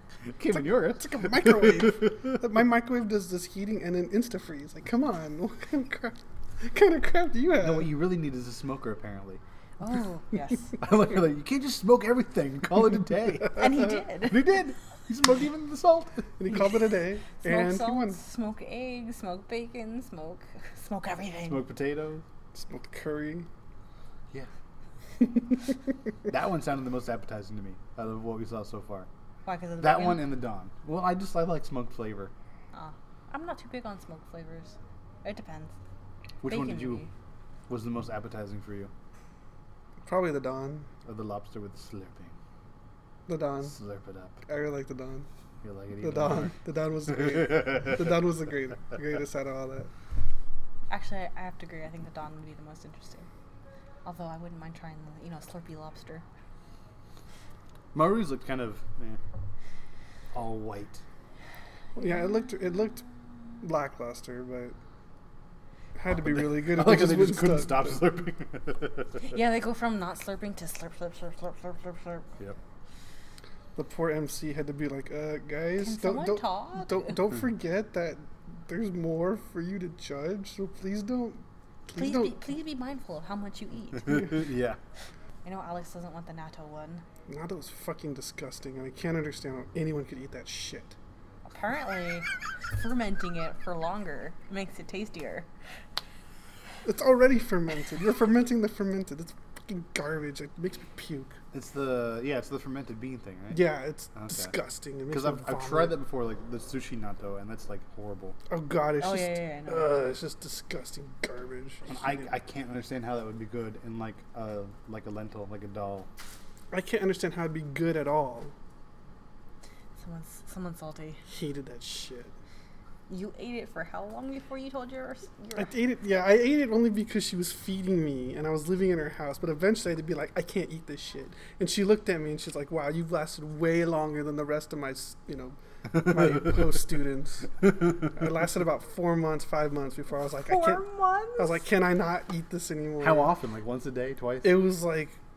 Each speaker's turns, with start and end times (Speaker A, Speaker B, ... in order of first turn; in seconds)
Speaker A: 0.3-2.3, 7.6-9.4, 10.8-16.2, 21.5-22.2, 26.3-29.1, 29.8-32.3, 36.4-37.1, 37.7-38.9, 41.0-42.4, 43.6-44.4, 45.6-46.5, 57.9-59.2, 60.3-61.0, 66.1-69.2, 84.2-84.8, 101.5-104.5, 105.1-108.4, 111.9-116.1, 143.0-144.7
Speaker B: 0.5-7.9, 16.4-18.2, 22.5-23.5, 40.0-40.9, 43.3-43.7, 44.5-45.3, 46.0-49.9, 62.0-63.0, 63.6-64.8, 66.0-68.0, 73.8-82.5, 87.3-91.0, 96.8-101.4, 103.5-106.0, 108.5-112.3, 116.7-118.5, 121.3-122.3, 125.5-140.9, 141.4-143.3, 144.4-145.2
Speaker C: 9.8-10.9, 13.5-14.4, 17.3-21.6, 29.4-30.3, 32.7-35.8, 36.5-37.1, 50.9-53.3, 54.0-56.2, 69.2-72.3, 75.8-77.2, 81.9-84.4, 85.4-87.0, 91.5-95.5, 109.0-109.9, 120.0-121.2, 123.1-125.7, 140.5-141.6